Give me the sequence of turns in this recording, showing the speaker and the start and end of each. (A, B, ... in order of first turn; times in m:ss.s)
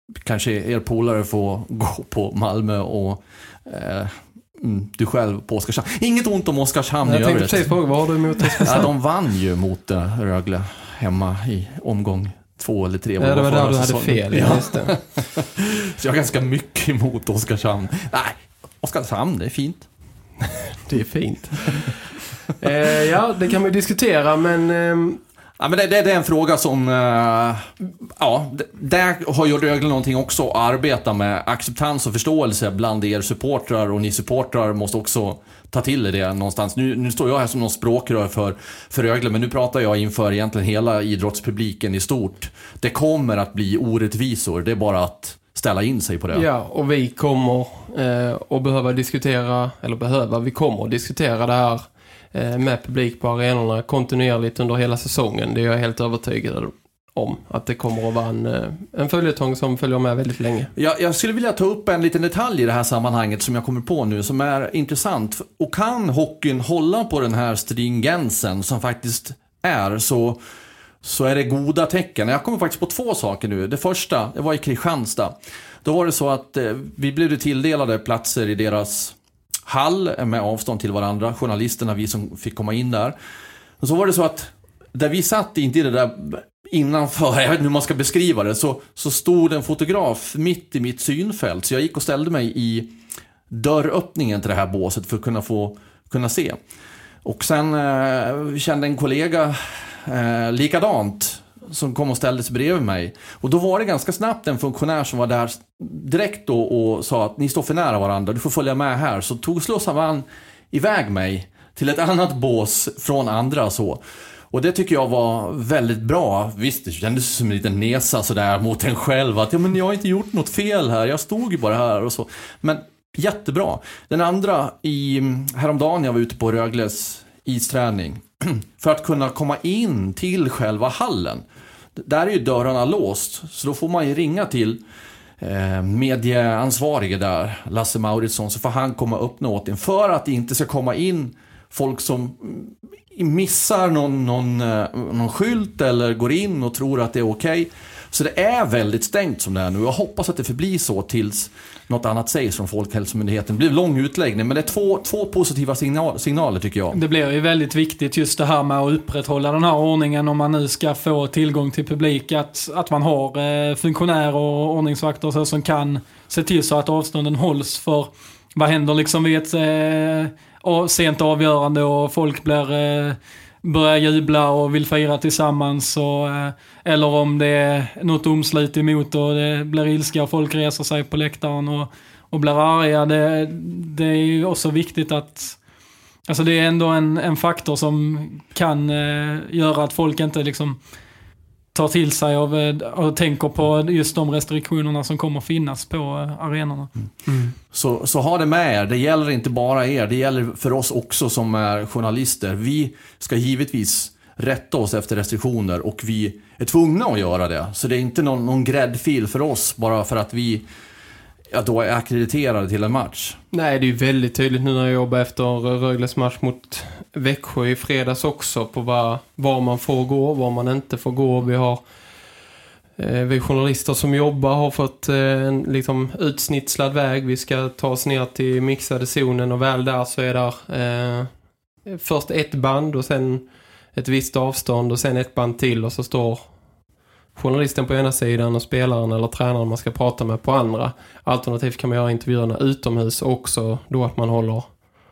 0:00.2-0:07.7 A
0:07.0-0:08.9 B
0:08.6-0:19.9 A
0:13.2-0:14.9 B
0:20.9-0:22.1 B
0:22.6-0:25.2 B
0:25.6-0:46.4 A
0:46.3-1:00.7 B
1:00.8-1:10.4 A
1:11.0-1:23.2 A
1:23.8-1:33.0 A
1:33.5-1:36.6 A
1:37.2-1:54.0 A
1:54.5-2:11.4 A
2:12.0-2:14.8 A
2:15.4-2:37.0 A
2:36.9-3:05.6 C
3:06.3-3:10.8 C
3:11.7-3:16.9 C
3:17.3-3:17.6 B
3:17.7-3:30.6 A
3:31.5-3:33.4 A
3:33.5-3:41.8 B
3:43.0-3:51.3 B
3:51.9-3:56.5 B
3:57.4-4:04.7 B